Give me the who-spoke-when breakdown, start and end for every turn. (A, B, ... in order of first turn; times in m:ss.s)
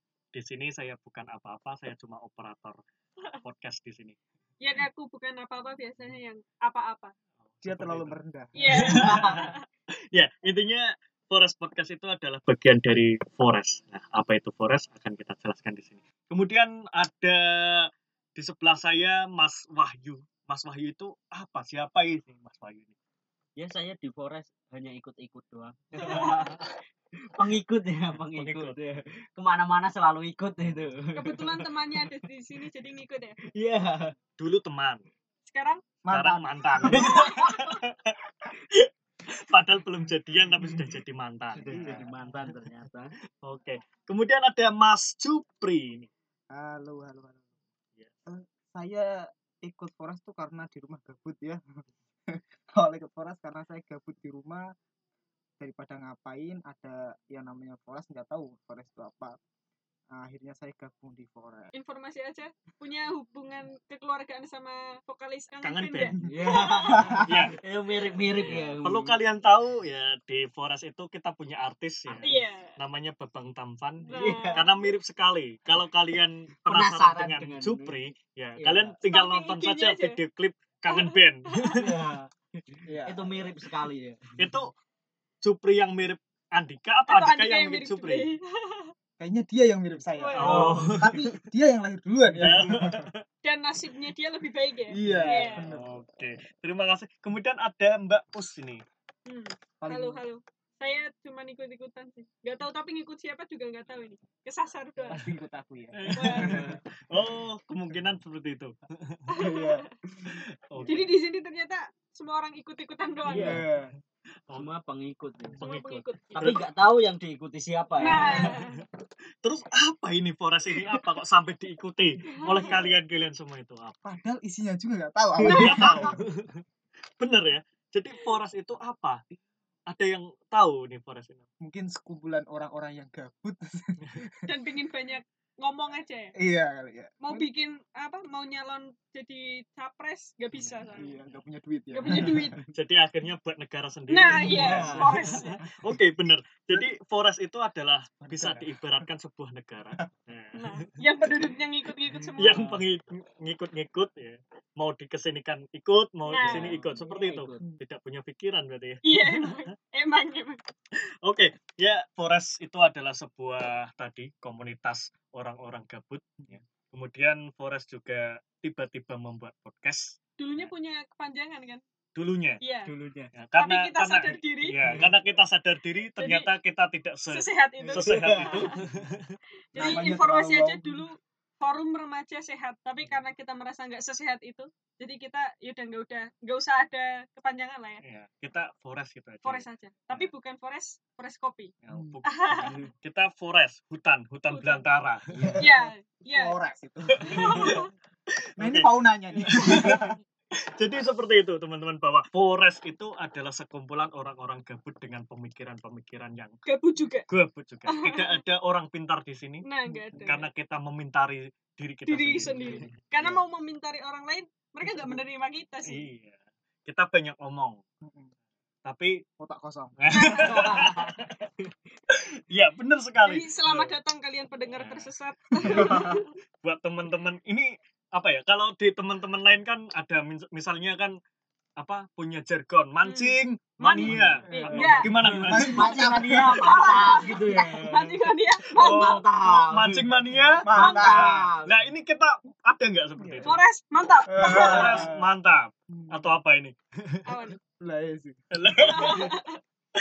0:00.3-0:02.8 A
0:03.4-0:04.2 A
0:04.6-0:07.1 B
0:07.5-0:08.2 A
0:07.6-0:09.0 C
0:08.6-0:09.6 B
0:08.7-0:09.4 A
0:08.9-0:09.4 D
0:10.1-0:23.0 A
0:23.6-0:26.6 D
0:26.0-0:26.4 A
0:26.0-0:26.5 B
0:27.4-0:31.9 D
0:28.3-0:28.8 A
0:31.2-0:33.4 B
0:33.6-0:34.1 D
0:34.4-0:35.0 A
0:35.5-0:35.9 B
0:36.0-0:37.2 C
0:36.1-0:38.1 A
0:36.9-0:37.4 D
0:37.0-0:37.7 B
0:39.4-0:42.0 A
0:41.6-0:43.2 D
0:41.7-0:42.1 C
0:43.4-0:46.1 A
0:46.5-0:47.4 C
0:48.3-0:51.6 C
0:52.3-0:54.7 C
0:55.6-0:59.4 C
1:00.1-1:01.7 C
1:01.7-1:07.1 B
1:05.6-1:06.1 A
1:06.1-1:07.4 C
1:06.2-1:09.2 D
1:07.2-1:07.5 A
1:08.4-1:21.8 A
1:12.1-1:12.4 D
1:12.2-1:12.7 B
1:14.1-1:14.9 B
1:14.1-1:14.6 D
1:16.7-1:18.0 D
1:18.6-1:19.0 D
1:19.1-1:20.2 B
1:20.9-1:21.8 B
1:21.7-1:24.3 D
1:22.9-1:23.5 C
1:24.4-1:24.7 A
1:25.4-1:28.3 A
1:27.1-1:28.9 B
1:29.2-1:33.0 C
1:30.2-1:30.7 B
1:30.4-1:31.2 A
1:30.4-1:31.0 D
1:32.4-1:33.2 A
1:33.4-1:35.6 B
1:34.9-1:36.0 C
1:35.1-1:38.8 A
1:39.3-1:45.2 B
1:39.8-1:40.2 C
1:45.1-1:46.8 C
1:45.9-1:49.3 A
1:46.1-1:46.6 B
1:46.4-1:46.8 D
1:49.3-1:49.9 B
1:49.4-1:50.4 C
1:50.3-1:51.1 A
1:50.9-1:53.6 B
1:53.3-1:53.6 D
1:53.3-1:53.9 C
1:54.5-1:58.6 D
1:55.6-1:56.7 A
1:55.6-1:56.6 B
1:58.0-1:58.8 B
1:58.0-1:58.8 A
1:59.4-2:04.0 A
2:02.3-2:02.8 B
2:02.6-2:02.9 C
2:04.0-2:06.1 C
2:05.5-2:05.9 B
2:05.5-2:06.6 A
2:07.2-2:09.2 A
2:09.9-2:11.5 A
2:11.6-2:14.3 C
2:14.5-2:16.3 B
2:16.4-2:17.5 C
2:17.2-2:21.1 B
2:20.7-2:21.3 D
2:21.0-2:22.5 C
2:21.9-2:22.6 B
2:22.7-2:30.9 A
2:24.1-2:25.6 B
2:24.3-2:25.4 D
2:24.5-2:25.5 C
2:28.2-2:28.9 C
2:30.6-2:32.6 B
2:32.4-2:39.6 A
2:32.4-2:32.9 D
2:36.3-2:36.7 B
2:36.4-2:37.7 D
2:39.0-2:40.6 B
2:41.2-2:50.7 A
2:50.4-2:51.8 B
2:52.2-2:52.6 A
2:52.6-2:52.9 B
2:52.8-2:53.3 D
2:53.3-2:59.3 A
2:53.6-2:54.8 B
2:54.8-2:55.1 D
2:56.2-2:56.5 B
2:57.3-2:58.1 B
2:57.8-2:58.8 D
2:59.7-3:08.0 B
2:59.8-3:01.0 C
3:08.0-3:10.3 A
3:09.4-3:11.8 B
3:11.8-3:15.4 A
3:11.9-3:12.2 C
3:12.3-3:12.8 B
3:14.5-3:14.9 B
3:15.3-3:15.6 D
3:15.4-3:17.8 C
3:15.6-3:16.6 B
3:17.2-3:17.8 A
3:17.2-3:17.9 B
3:18.6-3:20.0 A
3:18.6-3:20.2 C
3:20.8-3:26.6 A
3:26.7-3:27.3 B
3:27.3-3:29.7 A
3:27.9-3:28.4 B
3:29.6-3:30.5 B
3:29.9-3:30.3 C
3:30.3-3:32.9 A
3:32.1-3:36.0 B
3:32.5-3:32.9 D
3:34.8-3:35.2 C
3:35.9-3:37.8 A
3:38.0-3:38.3 C
3:38.8-3:39.2 A
3:39.4-3:40.3 C
3:40.0-3:41.3 A
3:40.1-3:40.6 B
3:40.5-3:41.3 D
3:42.1-3:44.0 A
3:43.2-3:46.2 B
3:44.7-3:45.1 A
3:45.6-3:51.2 A
3:45.7-3:46.0 C
3:51.8-3:55.9 A
3:53.0-3:55.1 B
3:54.0-3:58.2 D
3:54.1-3:57.2 C
3:56.5-3:59.1 B
3:58.8-4:01.0 A
3:58.8-4:01.9 D
4:00.6-4:01.5 C
4:00.8-4:01.2 B
4:01.6-4:03.6 A
4:03.2-4:03.6 C
4:03.4-4:05.0 B
4:04.3-4:05.3 C
4:04.4-4:07.5 A
4:05.9-4:06.3 C
4:07.3-4:07.6 B
4:07.8-4:08.5 C
4:08.5-4:09.4 A
4:08.8-4:09.5 B